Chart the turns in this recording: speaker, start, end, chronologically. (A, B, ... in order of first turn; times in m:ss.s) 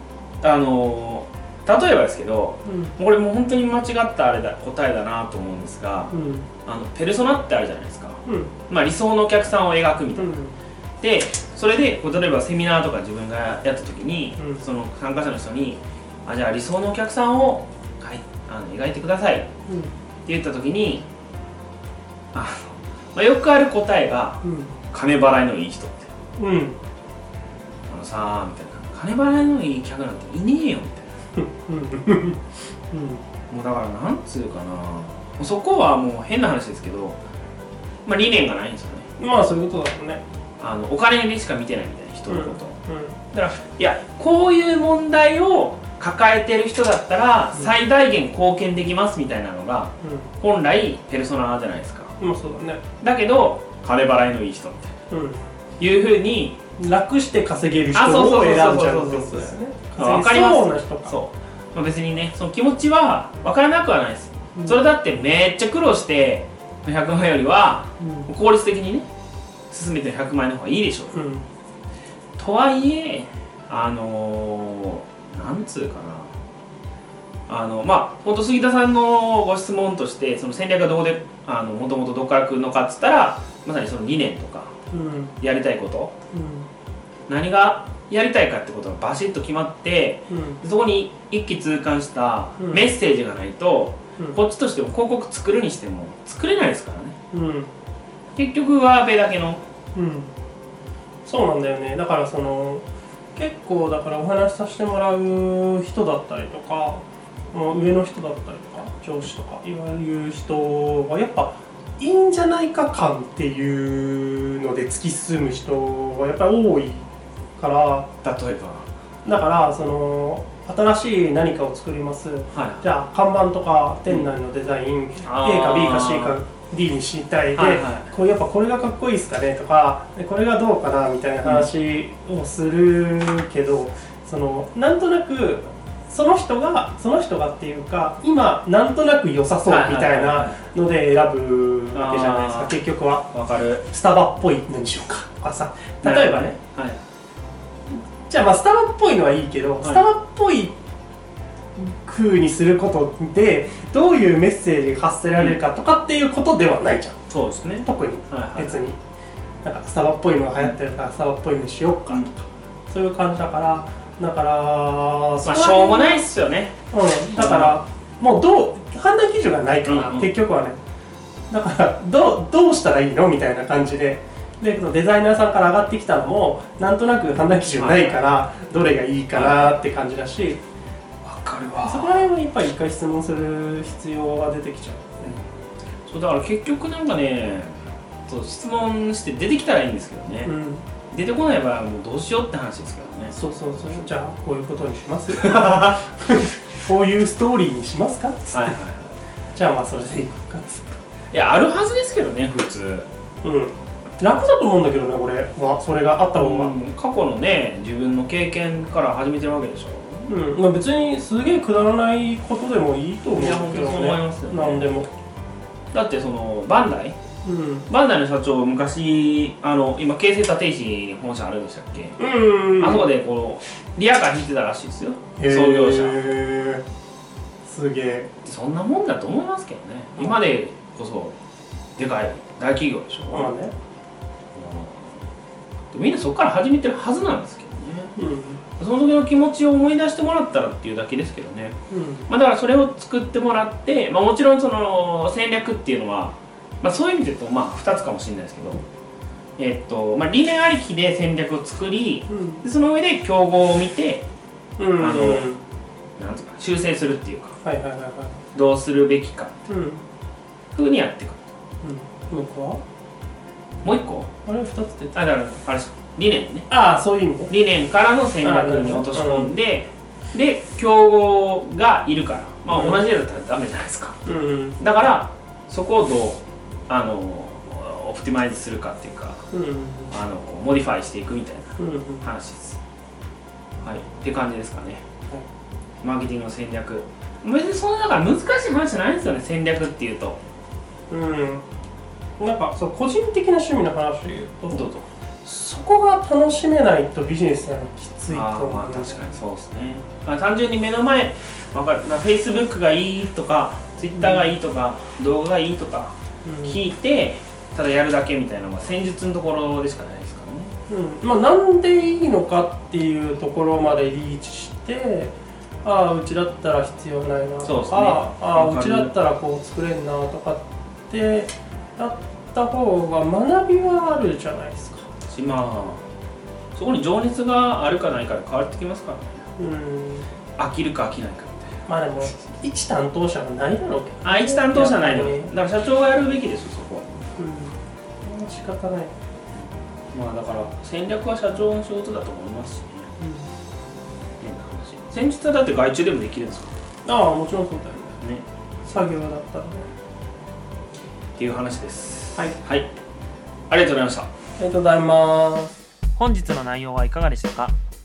0:00.4-0:06.1 A
0:02.7-0:03.0 B
0:06.1-0:06.5 B
0:06.7-0:10.4 A
0:08.2-0:08.5 B
0:10.2-0:10.6 B
0:11.0-0:19.5 A
0:14.4-0:14.6 B
0:20.3-0:21.1 A
0:22.3-0:24.4 A
0:24.4-0:24.8 B
0:24.9-0:26.1 A
0:26.4-0:26.8 B
0:27.9-0:31.1 A
0:31.4-0:33.2 B
0:33.5-0:37.2 A
0:38.0-0:39.1 A
0:39.2-0:40.2 B
0:40.6-0:42.8 A
0:42.3-0:43.2 B
0:43.3-0:52.2 A
0:50.0-0:50.3 B
0:52.2-0:52.8 B
0:53.0-0:54.9 A
0:55.1-0:55.4 B
0:55.8-0:56.6 A
0:56.8-1:01.2 B
0:57.9-1:09.1 A
1:08.0-1:08.3 B
1:09.7-1:11.2 A
1:11.1-1:11.4 B
1:12.4-1:16.3 A
1:17.5-1:24.7 A
1:24.9-1:25.4 B
1:25.4-1:26.1 A
1:26.3-1:26.7 B
1:27.3-1:37.2 A
1:30.3-1:30.6 B
1:32.6-1:32.9 B
1:37.3-1:37.7 B
1:38.4-1:39.6 A
1:40.0-1:40.3 B
1:41.2-1:42.8 B
1:43.4-1:57.1 B
1:57.6-1:58.1 B
1:58.2-1:58.9 A
1:59.2-2:23.3 B
2:02.5-2:02.8 A
2:05.2-2:06.4 A
2:07.6-2:08.1 A
2:19.7-2:20.6 A
2:21.9-2:22.8 A
2:23.3-2:23.8 A
2:23.9-2:26.6 B
2:26.0-2:27.0 A
2:27.9-2:30.8 B
2:31.8-2:37.2 B
2:35.3-2:35.6 A
2:37.3-2:38.8 A
2:37.8-2:39.0 B
2:39.6-2:42.4 B
2:42.9-2:46.2 B
2:45.4-2:46.8 A
2:46.9-2:50.8 B
2:47.3-2:47.8 A
2:49.8-2:50.3 A
2:51.5-3:00.6 B
2:57.7-2:58.2 A
2:59.3-2:59.8 A
3:01.2-3:02.2 A
3:01.8-3:05.4 B
3:06.1-3:10.5 A
3:10.4-3:10.8 B
3:11.1-3:13.4 A
3:13.3-3:18.8 B
3:15.5-3:15.9 A
3:18.5-3:19.2 A
3:19.6-3:21.0 B
3:21.3-3:23.1 A
3:23.4-3:26.7 B
3:26.4-3:30.3 A
3:30.3-3:35.1 B
3:33.3-3:34.9 A
3:35.9-3:37.2 A
3:37.4-3:37.9 B
3:37.9-3:42.2 A
3:42.2-3:43.1 B
3:42.8-3:46.2 A
3:45.4-3:46.8 B
3:47.7-3:48.3 B
3:48.4-3:51.4 A
3:52.0-3:53.5 A
3:53.3-3:53.7 B
3:54.5-3:55.1 A
3:55.9-3:58.1 A
3:58.2-3:58.6 B
3:58.8-4:01.8 A
4:01.9-4:02.3 B
4:02.3-4:08.8 A
4:09.6-4:14.2 A
4:12.3-4:12.6 B
4:14.8-4:15.6 B
4:15.0-4:15.5 A
4:16.2-4:17.6 A
4:17.6-4:18.4 B
4:18.5-4:19.6 A
4:19.7-4:20.0 B
4:20.8-4:21.5 A
4:21.8-4:22.8 B
4:23.8-4:24.3 A
4:24.4-4:25.2 B
4:25.1-4:26.7 A
4:26.7-4:27.5 B
4:27.5-4:34.2 A
4:28.4-4:29.5 B
4:32.7-4:33.0 B
4:34.2-4:34.8 B
4:34.8-4:39.4 A
4:39.5-4:40.1 B
4:40.1-4:42.8 A
4:41.8-4:42.3 B
4:43.8-4:45.0 A
4:46.0-4:50.4 A
4:51.1-4:51.6 B
4:52.4-4:54.9 B
4:54.7-4:55.1 A
4:55.4-4:59.2 B
4:58.3-5:10.7 A
5:04.2-5:04.4 B
5:06.4-5:06.8 B
5:10.9-5:15.3 B
5:15.8-5:25.1 B
5:17.6-5:19.1 A
5:25.3-5:26.0 A
5:26.8-5:29.4 A
5:29.6-5:30.3 B
5:30.6-5:31.8 A
5:31.9-5:35.5 B
5:34.2-5:37.1 A
5:37.4-5:39.1 B
5:40.1-5:43.1 A
5:43.2-5:43.5 B
5:44.4-5:46.7 A
5:47.0-5:48.2 B
5:48.2-5:49.0 A
5:48.9-5:49.9 B
5:51.4-5:52.9 A
5:53.7-5:54.3 A
5:54.6-5:55.7 B
5:56.2-5:57.8 A